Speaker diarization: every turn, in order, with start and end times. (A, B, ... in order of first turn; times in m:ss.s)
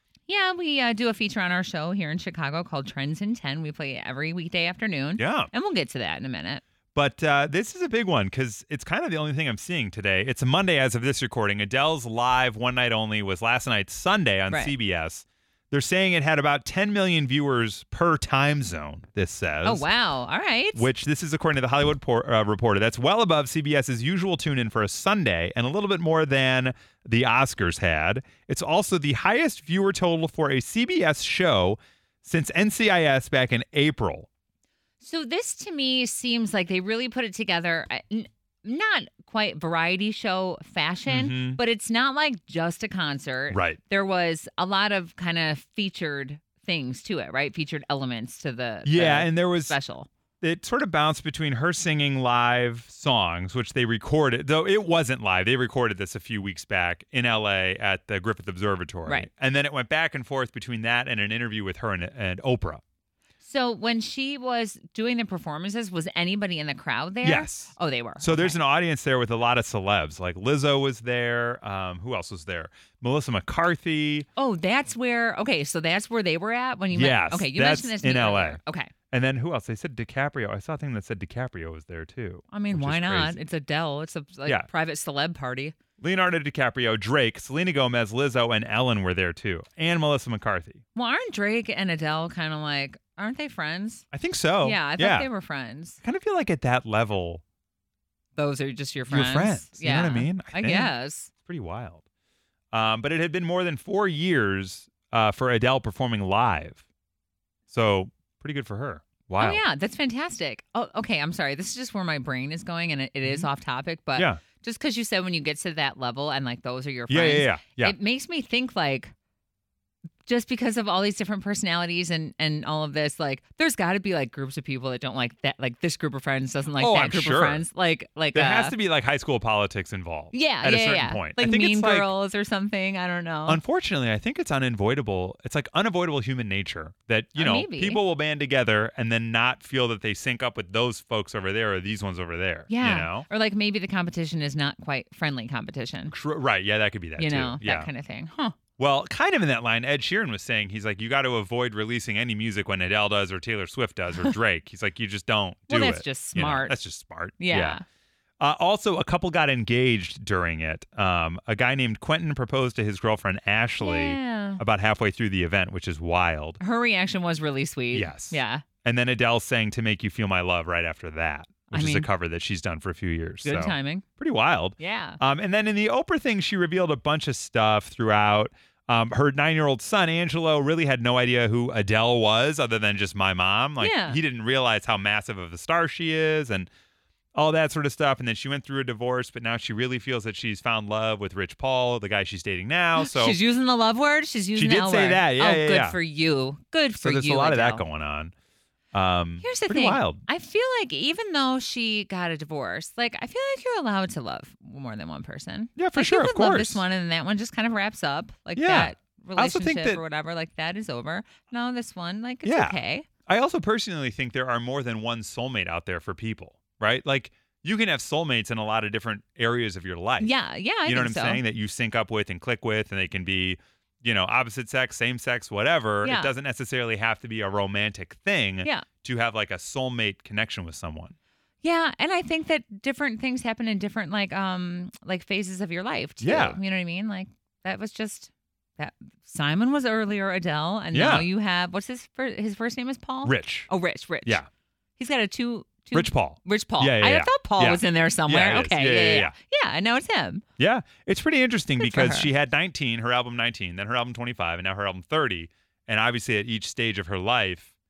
0:00.3-0:06.6 A
0:05.2-0:05.5 B
0:06.9-0:19.8 B
0:19.6-0:20.9 A
0:20.7-0:34.3 B
0:35.0-0:50.1 A
0:41.0-0:41.6 B
0:43.5-0:43.8 B
0:48.8-0:49.7 B
0:50.4-1:02.8 B
1:03.4-1:08.6 A
1:07.2-1:14.3 B
1:14.4-1:18.9 A
1:16.9-1:18.6 B
1:19.1-1:23.4 B
1:22.5-1:25.7 A
1:26.0-1:30.8 B
1:30.9-1:34.0 A
1:34.1-1:35.3 B
1:34.6-1:36.0 A
1:36.0-1:37.4 B
1:38.4-1:41.3 A
1:39.1-1:40.9 B
1:41.4-1:42.0 B
1:42.7-1:46.8 B
1:47.7-1:49.6 B
1:49.4-1:59.1 A
1:53.2-1:53.5 B
1:54.2-1:54.4 B
1:57.1-1:57.9 B
2:00.2-2:08.7 A
2:06.8-2:07.6 B
2:08.3-2:12.1 B
2:10.3-2:13.6 A
2:13.5-2:23.3 B
2:17.4-2:18.0 A
2:22.7-2:26.1 A
2:26.1-2:27.9 B
2:27.2-2:28.6 A
2:28.8-2:37.8 B
2:35.7-2:36.8 A
2:37.4-2:37.8 A
2:38.4-2:46.6 B
2:43.8-2:44.6 A
2:46.6-2:48.6 A
2:47.9-3:06.7 B
2:51.7-2:52.1 A
2:53.4-2:54.0 A
2:54.8-2:55.2 A
3:03.8-3:04.2 A
3:07.3-3:13.4 B
3:13.0-3:17.8 A
3:14.6-3:16.0 B
3:17.0-3:18.3 B
3:18.9-3:20.2 B
3:19.4-3:33.1 A
3:25.8-3:26.8 B
3:28.6-3:30.0 B
3:32.4-3:32.7 B
3:33.3-3:40.3 B
3:40.2-3:41.4 A
3:40.8-3:51.1 B
3:46.0-3:46.3 A
3:51.6-4:04.4 A
3:56.2-3:56.6 B
4:00.9-4:01.3 B
4:03.2-4:03.7 B
4:05.0-4:10.4 A
4:05.9-4:09.3 B
4:10.6-4:17.7 B
4:11.8-4:12.3 A